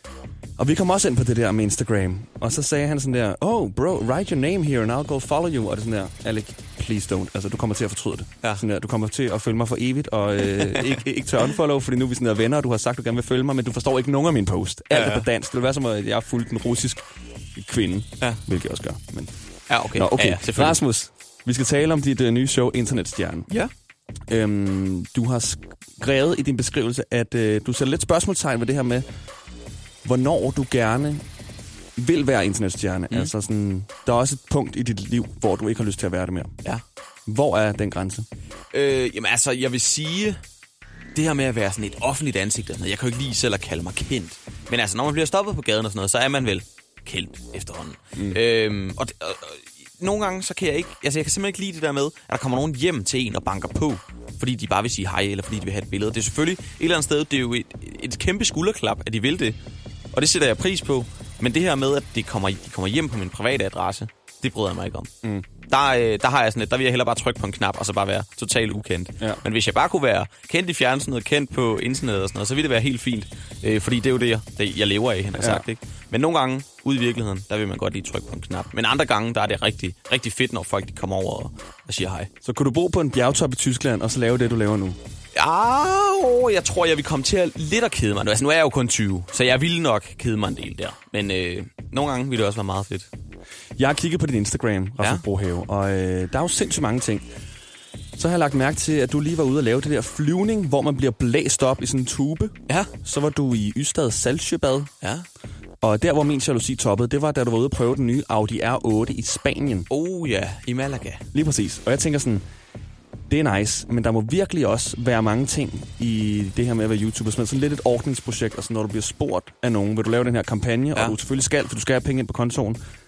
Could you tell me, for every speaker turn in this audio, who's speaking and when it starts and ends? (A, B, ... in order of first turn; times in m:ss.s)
0:00.6-0:17.0 A
0:10.6-0:11.0 B
0:14.9-0:15.2 B
0:17.6-0:19.3 A
0:19.7-0:20.8 B
0:19.9-0:23.5 A
0:24.3-0:29.0 A
0:30.0-0:31.2 A
0:32.0-0:36.5 A
0:37.3-0:38.3 A
0:38.7-0:40.4 B
0:41.1-0:59.6 B
1:00.1-1:05.1 B
1:05.7-1:22.3 B
1:15.4-1:15.6 A
1:22.4-1:25.0 A
1:25.3-1:33.1 B
1:33.8-1:37.3 A
1:38.2-1:44.9 A
1:45.0-1:45.3 B
1:45.8-1:49.9 A
1:49.9-1:51.2 B
1:51.3-1:52.4 A
1:53.3-2:02.8 A